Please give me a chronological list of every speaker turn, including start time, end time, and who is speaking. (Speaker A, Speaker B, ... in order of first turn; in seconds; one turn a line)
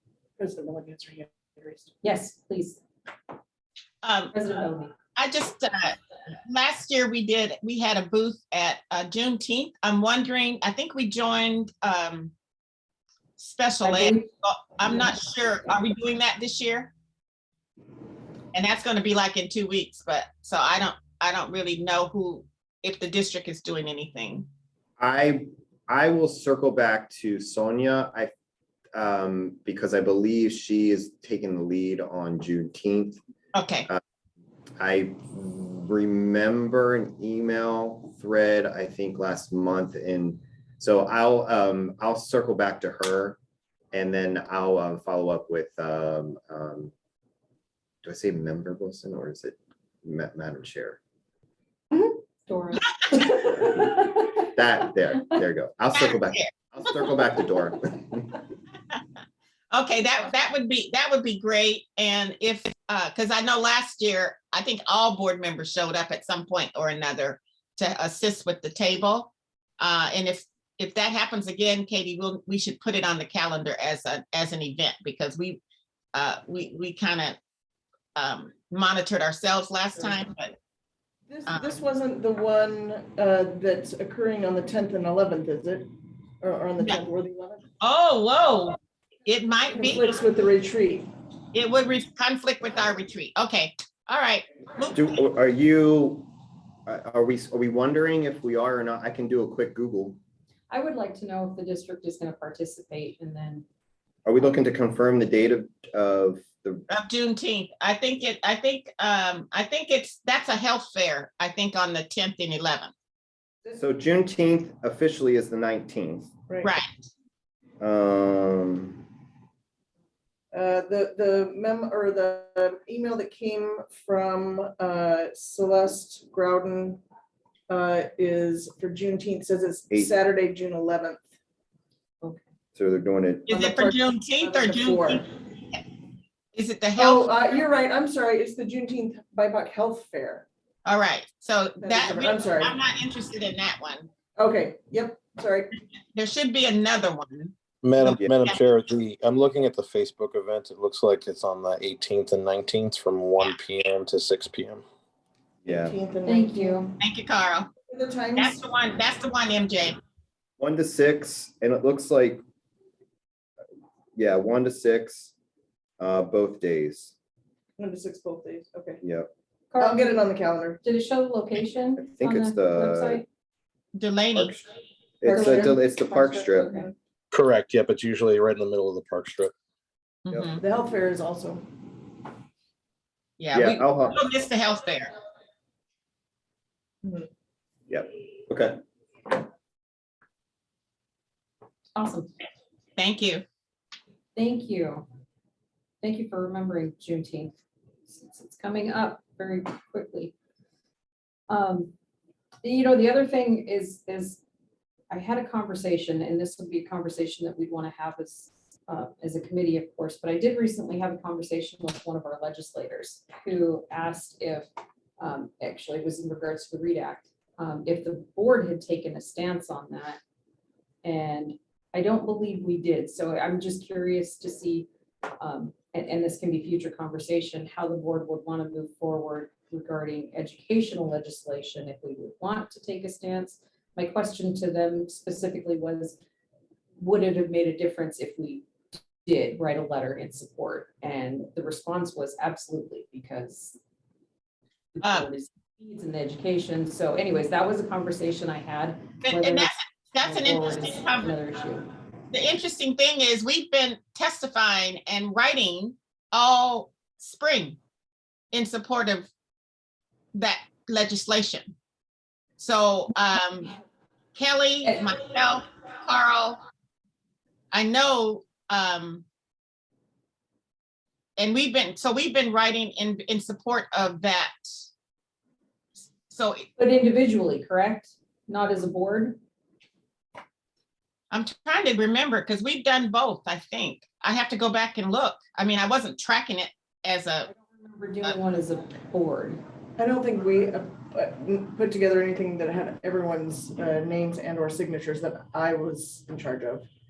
Speaker A: 0.4-2.0
Speaker B: 2.0-2.8
Speaker C: 4.0-4.3
Speaker B: 4.3-4.9
Speaker C: 5.2-6.0
Speaker C: 6.5-12.3
Speaker C: 13.4-16.9
Speaker B: 13.8-14.3
Speaker C: 18.5-24.5
Speaker D: 25.0-28.3
Speaker D: 28.9-33.2
Speaker C: 33.5-33.9
Speaker D: 34.8-43.4
Speaker D: 43.9-46.9
Speaker D: 48.0-51.0
Speaker B: 52.5-54.0
Speaker D: 53.9-58.4
Speaker C: 55.9-56.5
Speaker C: 59.7-75.6
Speaker C: 76.1-77.4
Speaker C: 78.2-80.5
Speaker A: 81.3-85.9
Speaker C: 81.5-81.7
Speaker A: 86.4-87.7
Speaker C: 87.8-90.2
Speaker A: 89.7-91.1
Speaker C: 91.5-95.1
Speaker D: 94.9-96.3
Speaker D: 96.9-100.2
Speaker B: 100.7-103.7
Speaker D: 104.2-106.9
Speaker C: 106.9-112.9
Speaker D: 113.8-116.3
Speaker A: 116.5-116.8
Speaker C: 116.6-116.9
Speaker D: 117.8-119.1
Speaker A: 120.5-127.0
Speaker A: 127.7-131.3
Speaker D: 132.8-133.5
Speaker C: 133.5-135.2
Speaker A: 133.5-135.3
Speaker C: 136.5-137.3
Speaker A: 137.0-140.4
Speaker C: 140.9-144.1
Speaker A: 141.8-142.8
Speaker A: 144.4-145.8
Speaker C: 146.2-148.6
Speaker E: 147.8-154.8
Speaker D: 155.7-155.9
Speaker A: 155.7-156.8
Speaker B: 156.2-157.0
Speaker C: 157.0-157.7
Speaker A: 157.9-158.6
Speaker C: 158.4-160.0
Speaker D: 160.6-162.4
Speaker D: 164.2-165.3
Speaker D: 166.0-167.1
Speaker A: 167.8-169.0
Speaker D: 169.0-169.3
Speaker B: 169.7-170.2
Speaker A: 169.8-170.8
Speaker B: 170.8-173.3
Speaker D: 172.0-173.2
Speaker C: 173.9-174.6
Speaker D: 174.3-174.6
Speaker D: 175.2-176.7
Speaker A: 175.2-175.8
Speaker B: 175.3-176.9
Speaker A: 176.7-176.9
Speaker E: 177.3-179.5
Speaker C: 180.2-180.6
Speaker D: 180.3-180.6
Speaker A: 180.6-181.7
Speaker C: 183.4-185.1
Speaker D: 183.5-184.2
Speaker A: 187.0-187.3
Speaker D: 187.9-188.8
Speaker B: 192.0-192.3
Speaker C: 193.0-193.4
Speaker B: 194.3-195.1
Speaker B: 196.0-200.3
Speaker B: 201.5-201.9
Speaker B: 202.6-204.4
Speaker B: 205.1-220.2
Speaker B: 221.0-224.9
Speaker B: 225.4-236.2
Speaker B: 237.0-238.7
Speaker B: 239.2-243.8
Speaker B: 244.9-251.9
Speaker C: 249.2-251.3
Speaker C: 252.3-257.8
Speaker C: 258.5-259.3
Speaker C: 260.4-261.7
Speaker C: 262.6-263.7
Speaker C: 264.4-266.6
Speaker C: 267.7-269.2
Speaker C: 271.4-274.6
Speaker C: 276.3-276.7
Speaker B: 276.8-279.4
Speaker C: 281.3-287.5
Speaker B: 287.5-289.6
Speaker A: 290.0-296.9